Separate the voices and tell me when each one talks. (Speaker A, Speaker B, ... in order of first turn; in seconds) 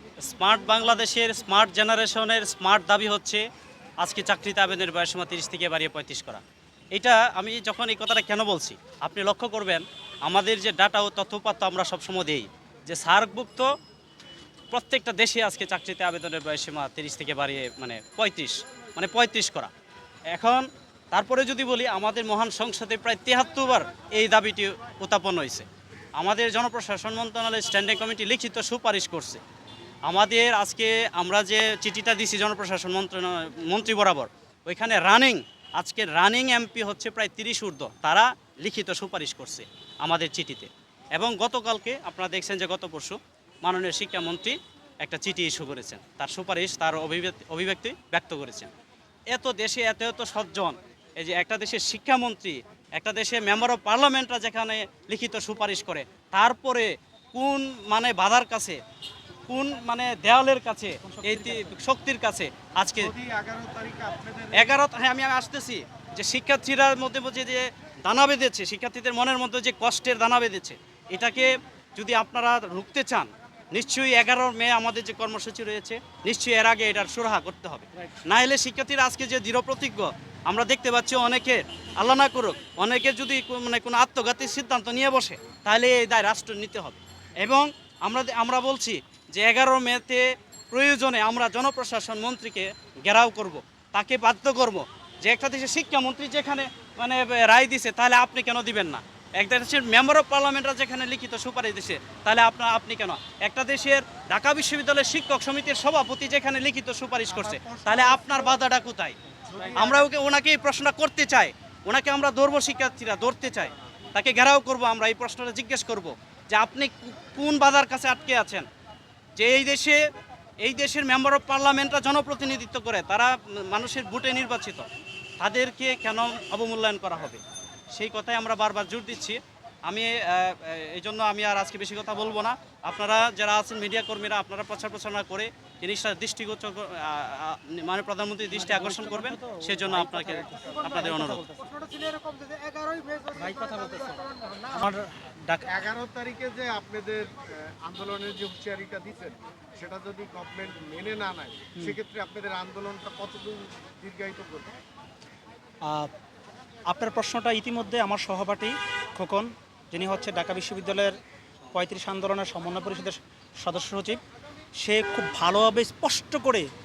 Speaker A: 0.2-3.4, 4.0-6.4, 6.9-13.7, 14.7-19.7, 20.3-29.4, 30.1-48.7, 49.3-58.8, 59.5-63.1, 64.5-109.2, 109.7-118.7, 119.4-120.0, 120.6-124.9, 125.4-127.4, 127.9-141.5
Speaker B: 61.1-61.7, 138.6-145.7, 155.8-156.1, 156.9-161.2, 161.7-164.2, 164.8-166.7
Speaker C: 63.0-64.8, 107.4-108.5, 109.5-110.0, 145.7-154.8